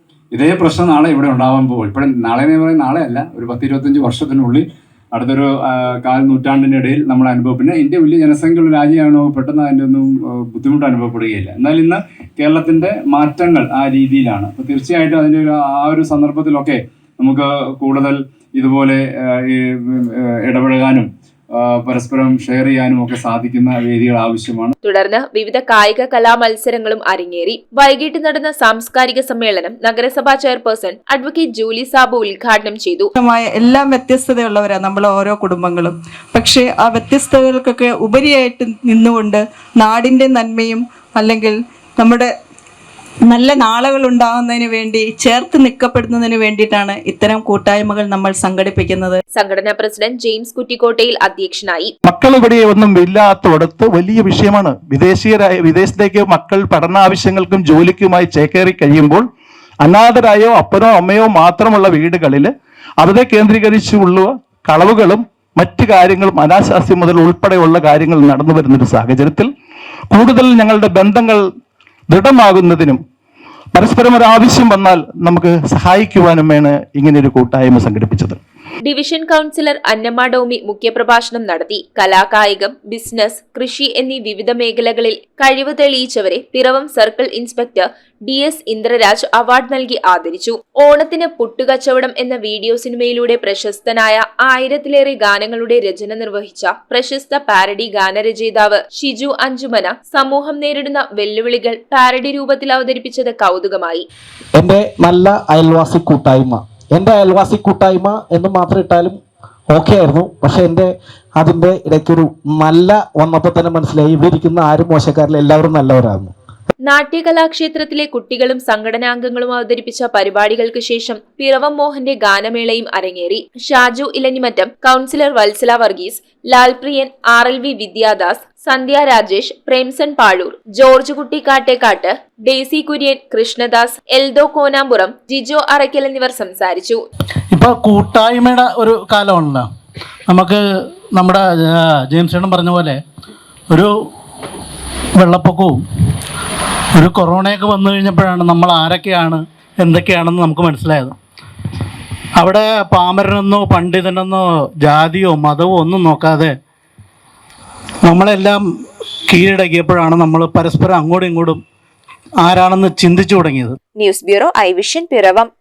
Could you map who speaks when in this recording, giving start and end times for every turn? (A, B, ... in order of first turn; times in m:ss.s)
0:00.3-0:24.7 A
0:24.8-0:33.1 B
0:33.2-0:42.3 C
0:43.3-0:49.2 C
0:49.3-0:51.9 B
0:52.0-0:59.2 D
0:59.8-1:09.5 D
1:10.1-1:11.4 D
1:12.1-1:13.0 D
1:13.7-1:18.4 D
1:18.8-1:44.0 B
1:44.6-1:49.2 E
1:49.7-1:56.3 E
1:56.9-2:17.0 B
2:17.5-2:19.6 F
2:20.3-2:20.6 F
2:21.2-2:21.4 F
2:22.1-2:23.0 F
2:25.2-2:25.8 F
2:26.9-2:31.1 F
2:32.4-2:36.5 F
2:38.0-2:38.6 F
2:39.3-2:41.6 F
2:42.4-2:43.8 F
2:44.0-2:45.5 B